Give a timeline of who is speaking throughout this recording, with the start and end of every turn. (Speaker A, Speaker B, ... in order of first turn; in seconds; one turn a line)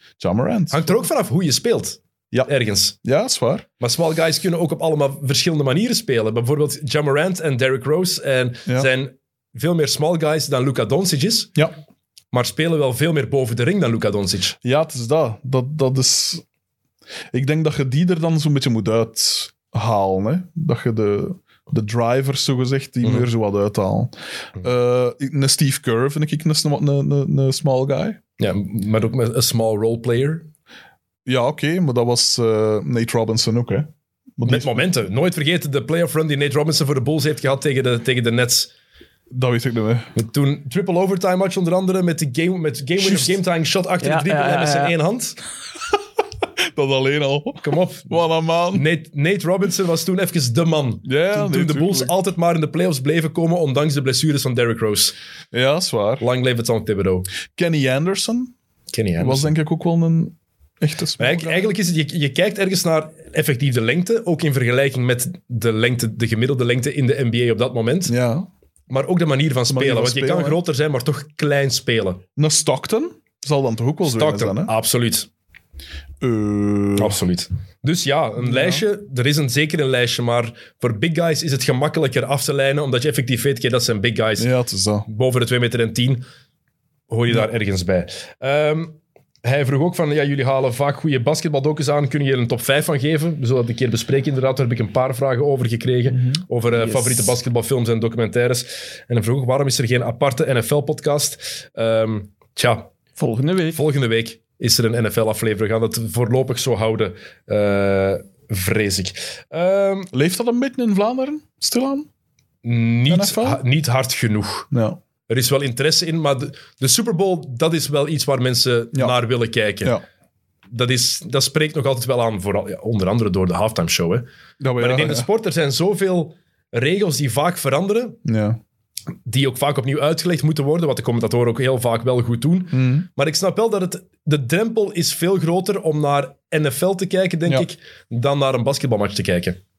Speaker A: 0.2-1.1
Speaker B: 0.7-3.0
Speaker A: 3.0-3.7
Speaker B: 3.8-11.5
Speaker B: 12.3-14.6
Speaker A: 14.6-16.4
Speaker A: 17.3-28.2
Speaker B: 23.0-23.3
Speaker B: 28.4-30.5
Speaker A: 31.2-34.8
Speaker B: 34.4-38.7
Speaker A: 39.3-40.1
Speaker B: 40.1-45.4
Speaker A: 43.0-43.3
Speaker C: 44.0-45.0
Speaker A: 46.7-48.9
Speaker B: 47.6-48.2
Speaker B: 48.7-55.1
Speaker A: 51.0-52.1
Speaker A: 55.5-56.2
Speaker B: 56.2-57.3
Speaker A: 57.5-58.5
Speaker B: 58.9-59.5
Speaker A: 59.2-61.7
Speaker B: 61.2-68.1
Speaker A: 68.1-68.5
Speaker B: 68.9-72.2
Speaker A: 69.7-70.6
Speaker A: 72.3-74.7
Speaker B: 74.0-75.3
Speaker A: 76.2-77.2
Speaker B: 77.0-84.5
Speaker A: 78.4-78.8
Speaker A: 84.4-85.1
Speaker B: 85.1-86.2
Speaker B: 87.1-102.9
Speaker A: 96.1-96.4
Speaker C: 96.9-97.3
Speaker C: 103.2-103.8
Speaker B: 103.7-110.1
Speaker A: 110.1-112.1
Speaker B: 112.6-114.7
Speaker A: 113.1-113.6
Speaker A: 114.7-115.0
Speaker B: 115.3-119.9
Speaker B: 120.7-124.2
Speaker A: 124.6-125.3
Speaker B: 124.8-128.2
Speaker A: 128.2-128.6
Speaker B: 129.2-139.6
Speaker A: 132.7-133.1